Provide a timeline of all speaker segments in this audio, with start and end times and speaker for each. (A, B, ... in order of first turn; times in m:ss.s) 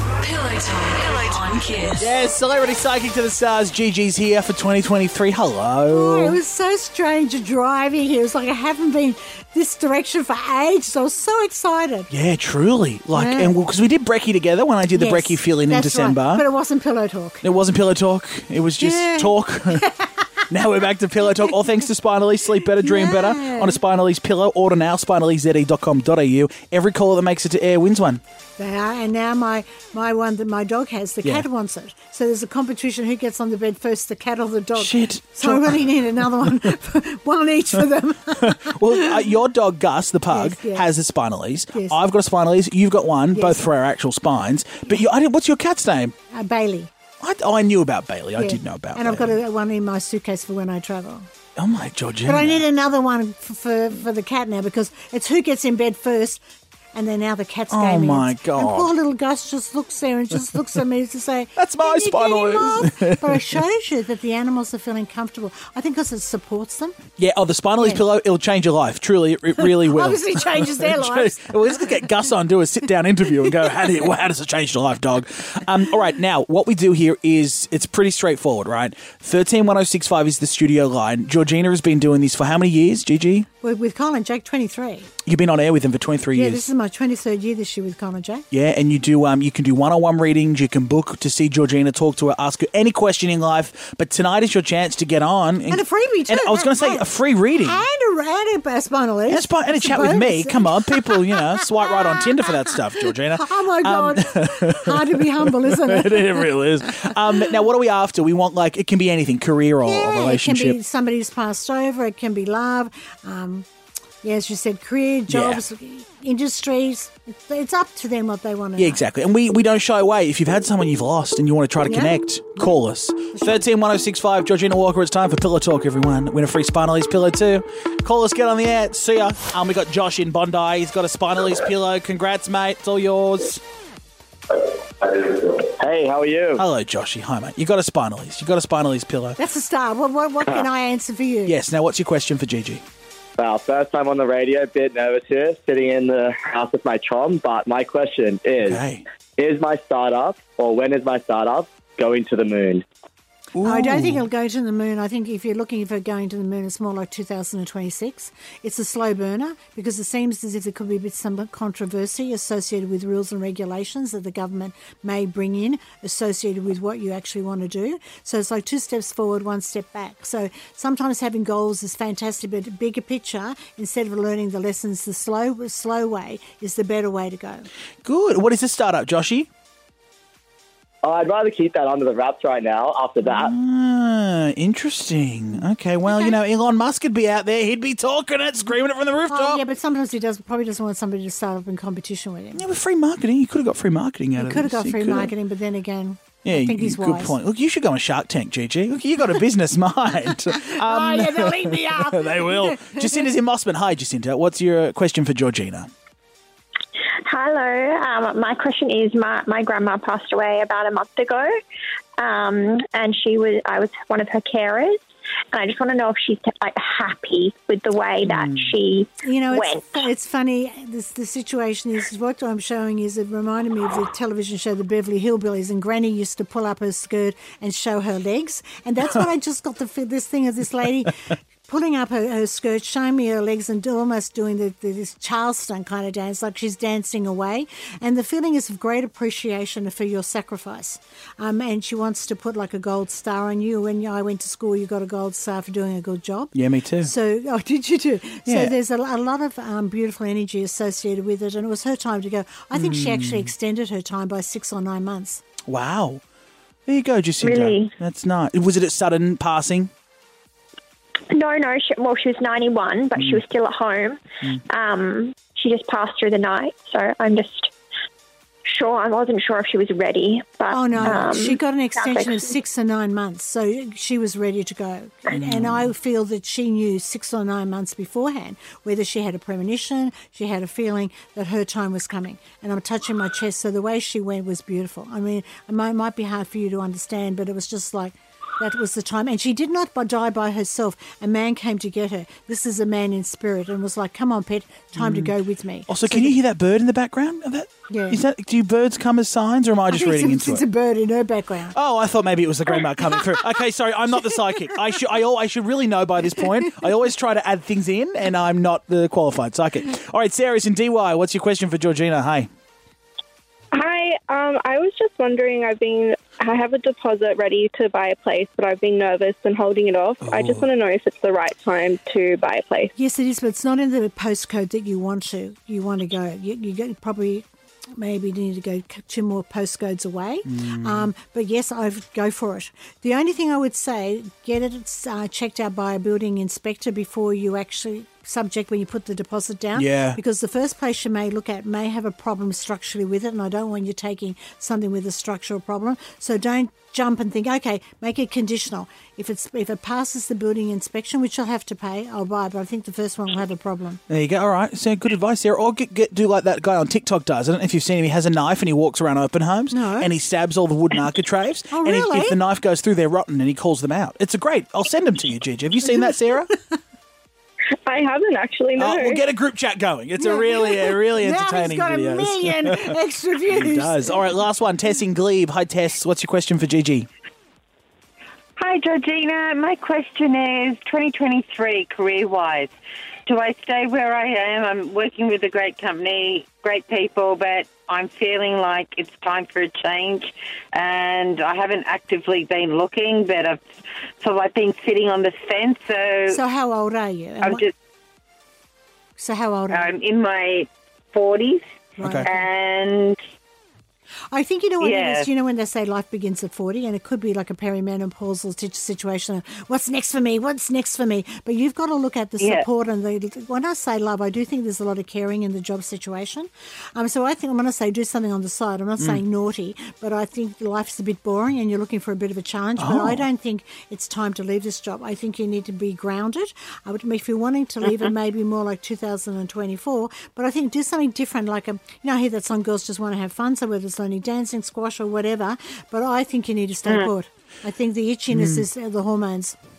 0:00.3-0:01.7 A
0:02.0-0:06.4 B
0:05.9-0:12.1 C
0:12.1-0:16.4 B
0:13.1-0:13.6 C
0:14.9-0:17.4 C
0:17.4-0:19.8 B
0:18.8-0:20.4 C
0:20.5-0:28.2 B
0:22.7-0:23.8 C
0:28.6-0:39.3 C
0:34.8-0:35.9 B
0:38.4-0:46.1 B
0:40.3-0:40.9 C
0:43.3-0:43.6 C
0:46.3-0:46.9 C
0:47.2-0:49.4 B
0:48.4-0:51.3 C
0:51.6-0:52.6 B
0:52.3-0:56.4 C
0:56.9-1:07.0 C
0:57.7-0:58.9 B
1:01.6-1:03.6 B
1:07.2-1:23.5 B
1:09.6-1:12.2 C
1:23.6-1:25.1 C
1:25.2-1:26.6 B
1:26.3-1:28.4 C
1:28.5-1:37.8 B
1:35.7-1:37.1 C
1:37.6-1:46.6 C
1:39.3-1:50.8 B
1:49.8-1:53.7 C
1:54.2-1:59.0 C
1:55.3-1:55.6 B
1:58.8-2:13.6 B
2:01.8-2:02.7 C
2:03.3-2:03.6 C
2:15.0-2:16.6 D
2:16.6-2:19.4 B
2:19.4-2:21.6 C
2:21.5-2:22.8 B
2:23.4-2:28.8 D
2:28.6-2:29.0 B
2:29.4-2:32.8 D
2:33.6-2:34.2 B
2:33.6-2:57.7 C
2:58.0-2:59.5 B
3:01.0-3:03.5 D
3:03.2-3:09.6 B
3:06.1-3:06.4 C
3:09.3-3:12.6 C
3:12.5-3:15.3 B
3:14.4-3:17.4 C
3:16.4-3:25.9 B
3:20.5-3:23.3 C
3:27.3-3:31.5 E
3:32.2-3:35.0 E
3:35.5-3:39.8 E
3:38.2-3:38.7 B
3:39.2-4:15.4 C
4:06.5-4:07.1 B
4:08.5-4:08.8 B
4:12.7-4:13.5 B
4:15.7-4:16.2 B
4:16.9-4:19.9 B
4:17.4-4:17.9 E
4:21.3-4:27.7 E
4:23.2-4:23.4 B
4:28.7-4:32.5 E
4:30.7-4:56.4 C
4:35.3-4:35.9 B
4:55.0-4:55.3 B
4:55.9-5:00.6 B
4:57.9-4:58.2 C
4:59.9-5:01.8 C
5:01.7-5:12.5 B
5:13.7-5:22.9 F
5:20.2-5:20.7 B
5:23.0-5:54.0 C
5:30.5-5:31.1 B
5:39.8-5:40.2 B
5:54.1-6:06.5 B
5:59.7-6:00.1 C
6:01.7-6:02.4 C
6:07.9-6:09.2 F
6:08.8-6:13.0 B
6:10.2-6:14.2 C
6:13.5-6:17.1 B
6:18.6-6:22.7 A
6:23.3-6:33.6 A
6:34.2-6:36.4 A
6:36.3-6:37.7 C
6:37.4-6:37.7 A
6:39.2-6:39.9 C
6:39.7-6:41.6 A
6:42.0-6:42.5 C
6:42.0-6:42.3 B
6:42.2-6:43.2 A
6:44.3-7:19.6 C
6:44.8-6:45.3 A
6:52.4-6:52.7 A
7:02.8-7:03.2 B
7:18.3-7:18.7 B